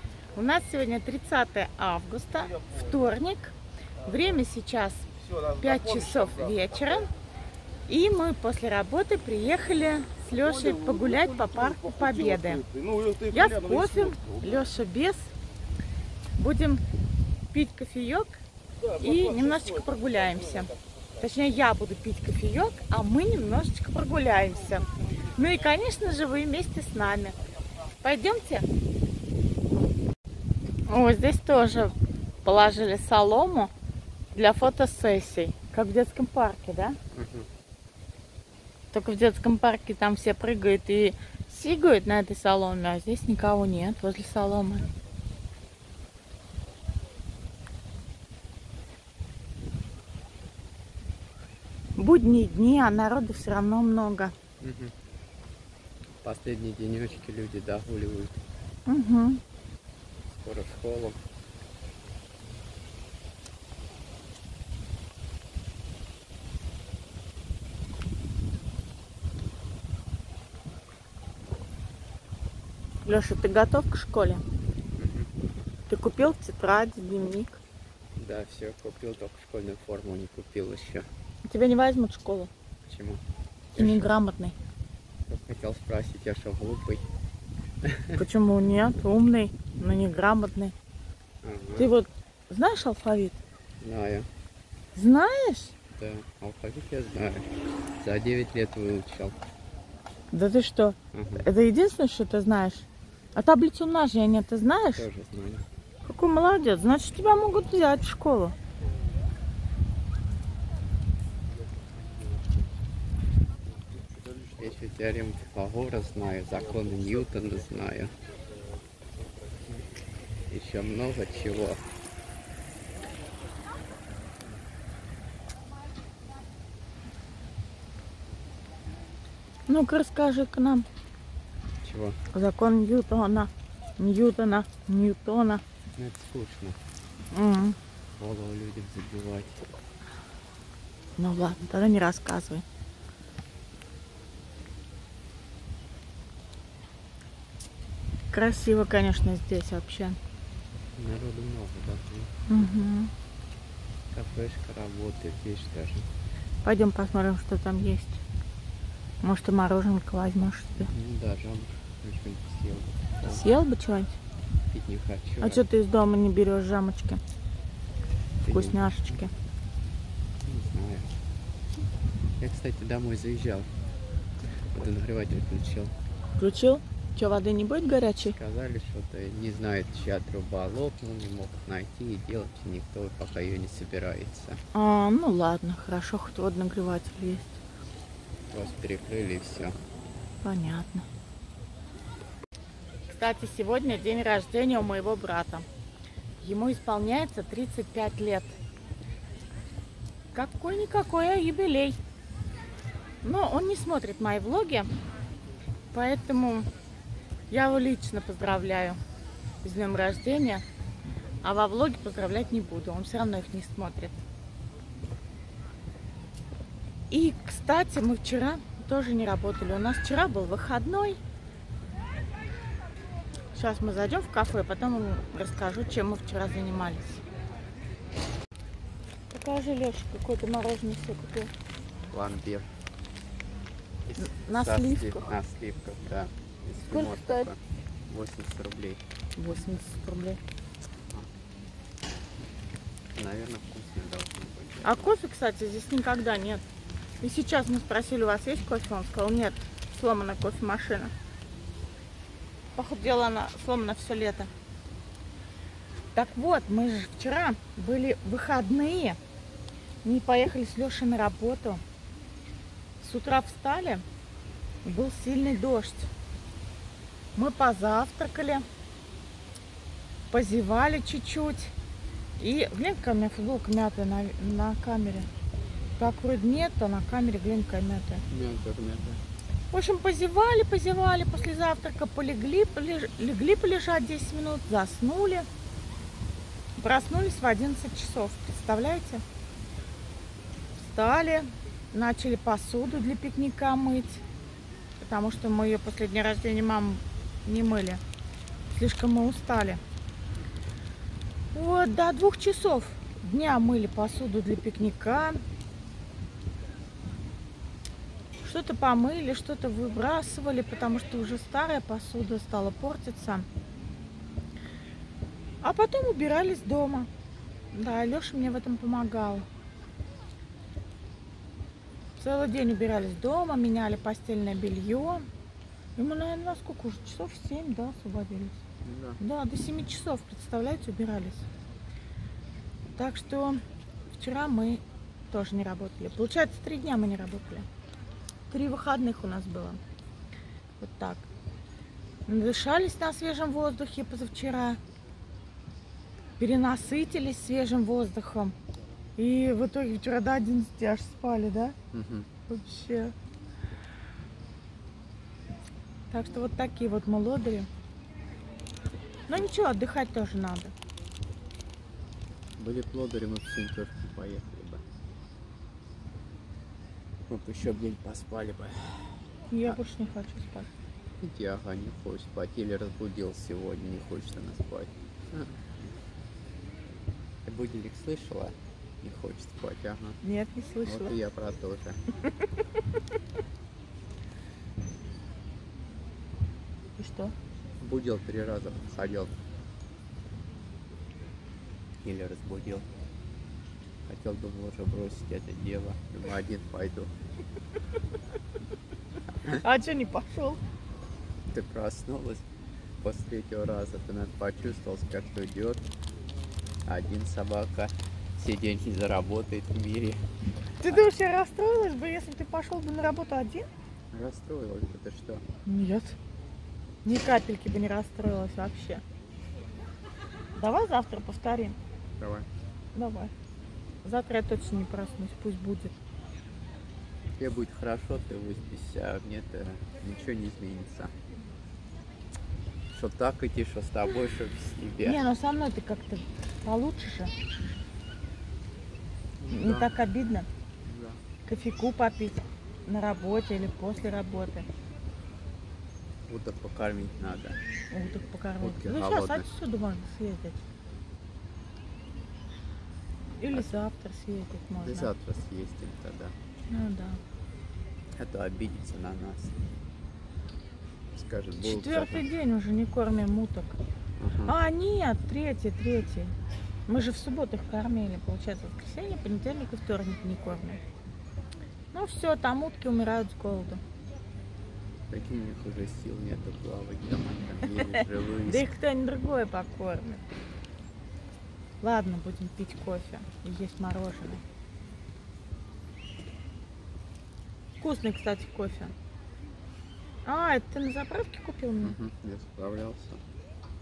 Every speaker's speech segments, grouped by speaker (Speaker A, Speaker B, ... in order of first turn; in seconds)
Speaker A: 0.3-7.1, 7.9-12.7, 13.2-15.3, 16.4-16.8, 17.5-18.4, 18.9-27.4, 28.0-28.7, 30.9-33.7, 34.3-37.0, 38.9-44.9, 52.0-54.3, 58.9-59.4, 73.0-74.4, 75.9-77.6, 81.4-82.5, 83.8-84.5, 88.1-90.7, 91.8-93.4, 94.9-95.7, 100.3-105.1, 106.0-108.5, 129.7-130.8, 132.3-135.6, 137.3-137.8, 141.2-142.6, 148.3-150.2, 152.5-153.1, 156.6-158.2, 159.2-160.9, 163.2-164.2, 165.4-167.2, 168.5-169.3, 176.4-178.4, 184.7-187.6, 190.4-191.0, 193.1-195.7, 196.4-198.5, 200.3-202.0, 203.2-204.9, 205.9-206.7, 207.5-209.0, 209.6-210.6, 211.4-214.2, 217.1-221.2, 223.5-227.2, 229.3-231.5, 234.2-235.3, 236.9-237.5, 239.4-240.4, 244.8-246.6, 247.2-251.1, 252.8-254.5, 256.1-259.2, 260.0-261.8, 263.0-264.0, 264.8-266.1, 267.4-268.6, 270.3-271.7, 272.4-275.3, 276.0-278.2, 279.7-285.5, 286.8-289.2, 290.8-294.2, 295.0-298.0, 298.7-299.8, 301.5-305.4, 308.4-313.4, 315.6-317.1, 317.7-319.4, 322.2-325.3, 326.0-328.6, 329.2-331.4, 332.9-333.6, 334.1-337.6, 338.5-339.8, 340.8-341.2, 342.3-344.8, 346.4-348.5, 349.2-351.8, 352.5-353.1, 356.1-357.7, 359.3-360.7, 369.5-370.7, 380.2-381.1, 387.0-387.3, 399.4-400.6, 410.8-413.7, 415.6-416.1, 417.0-419.0, 420.6-421.8, 422.9-423.3, 424.0-425.9, 435.0-437.3, 439.5-440.5, 441.4-444.7, 447.9-450.6, 453.4-455.1, 456.7-457.2, 461.6-463.8, 464.5-466.3, 466.9-470.8, 471.9-473.8, 477.7-480.2, 481.8-484.4, 487.8-488.9, 490.2-492.0
Speaker B: 37.1-37.5, 54.6-54.9, 56.2-58.4, 60.3-61.2, 75.0-75.3, 78.2-81.1, 82.8-83.2, 83.7-84.1, 85.3-87.0, 87.8-88.2, 91.4-91.9, 93.8-94.3, 95.9-99.4, 101.1-101.5, 104.9-105.6, 114.2-118.1, 120.5-121.8, 131.8-132.2, 135.9-136.8, 138.1-139.6, 150.9-152.5, 154.1-156.1, 160.9-163.4, 164.7-165.6, 168.4-169.1, 170.4-171.2, 172.4-173.7, 174.7-175.9, 178.3-184.6, 188.5-189.8, 232.1-232.7, 234.1-239.0, 243.1-245.1, 278.3-279.2, 328.8-329.2, 351.9-352.3, 362.6-364.8, 367.3-369.8, 371.2-375.7, 377.4-380.2, 380.8-382.0, 387.8-389.4, 392.0-392.9, 394.0-397.1, 401.5-402.4, 403.0-405.9, 406.9-410.2, 414.1-415.4, 422.2-422.5, 427.4-431.1, 432.9-435.2, 439.4-439.9, 440.8-441.2, 446.3-447.6, 448.6-449.5, 454.8-456.3, 458.1-459.6, 461.1-462.3, 464.2-464.6, 475.1-478.7, 491.8-493.2